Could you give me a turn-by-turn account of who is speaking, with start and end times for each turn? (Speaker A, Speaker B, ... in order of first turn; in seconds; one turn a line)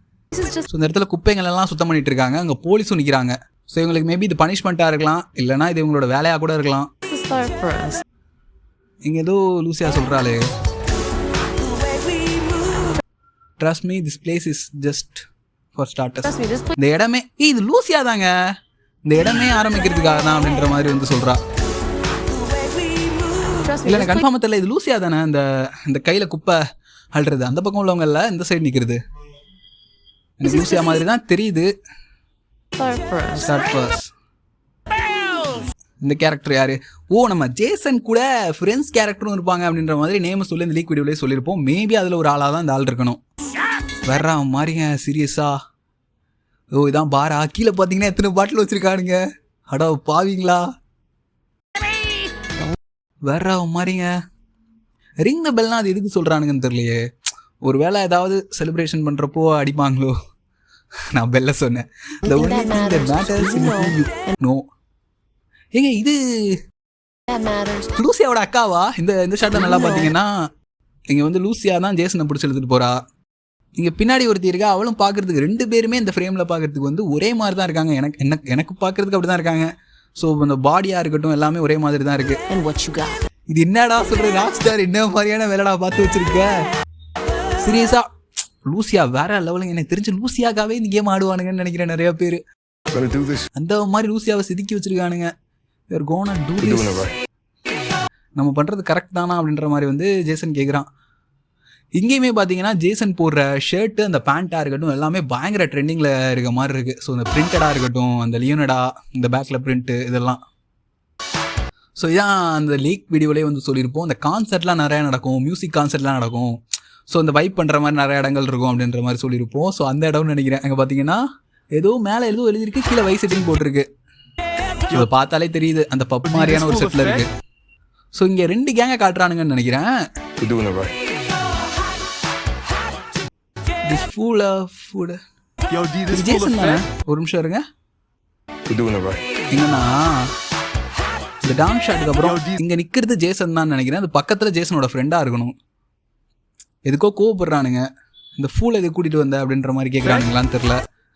Speaker A: 0.7-6.9
Speaker B: 7.1-8.0
Speaker A: 9.1-10.5
Speaker A: 13.6-15.2
Speaker A: 15.8-18.3
Speaker A: 19.1-21.4
Speaker B: 23.4-24.1
Speaker A: 23.8-26.6
Speaker A: 27.1-29.0
Speaker A: 30.4-31.7
Speaker B: 32.8-33.5
Speaker A: 33.3-34.1
Speaker A: 36.0-43.2
Speaker A: 44.0-45.5
Speaker A: 46.8-49.2
Speaker A: 49.7-50.6
Speaker A: 53.3-54.1
Speaker A: 55.2-57.0
Speaker A: 57.6-60.1
Speaker A: 61.1-64.7
Speaker B: 62.3-63.9
Speaker A: 65.8-66.5
Speaker B: 67.3-67.8
Speaker A: 67.8-70.3
Speaker A: 71.1-73.0
Speaker A: 73.8-82.4
Speaker B: 82.5-83.2
Speaker A: 83.5-86.5
Speaker A: 87.6-88.1
Speaker A: 88.7-92.4
Speaker C: 92.9-93.5
Speaker A: 93.6-95.3
Speaker A: 95.9-97.1
Speaker C: 96.7-97.1
Speaker A: 98.4-100.9
Speaker A: 102.0-110.4
Speaker A: 112.0-116.6
Speaker A: 117.1-121.2
Speaker A: 121.8-123.9
Speaker A: 124.9-127.3
Speaker A: 128.2-129.9
Speaker C: 130.4-130.9
Speaker A: 133.9-135.2
Speaker A: 136.0-137.6
Speaker C: 138.7-139.2
Speaker A: 139.5-140.3
Speaker A: 141.4-145.6
Speaker A: 146.8-147.9
Speaker A: 148.4-150.8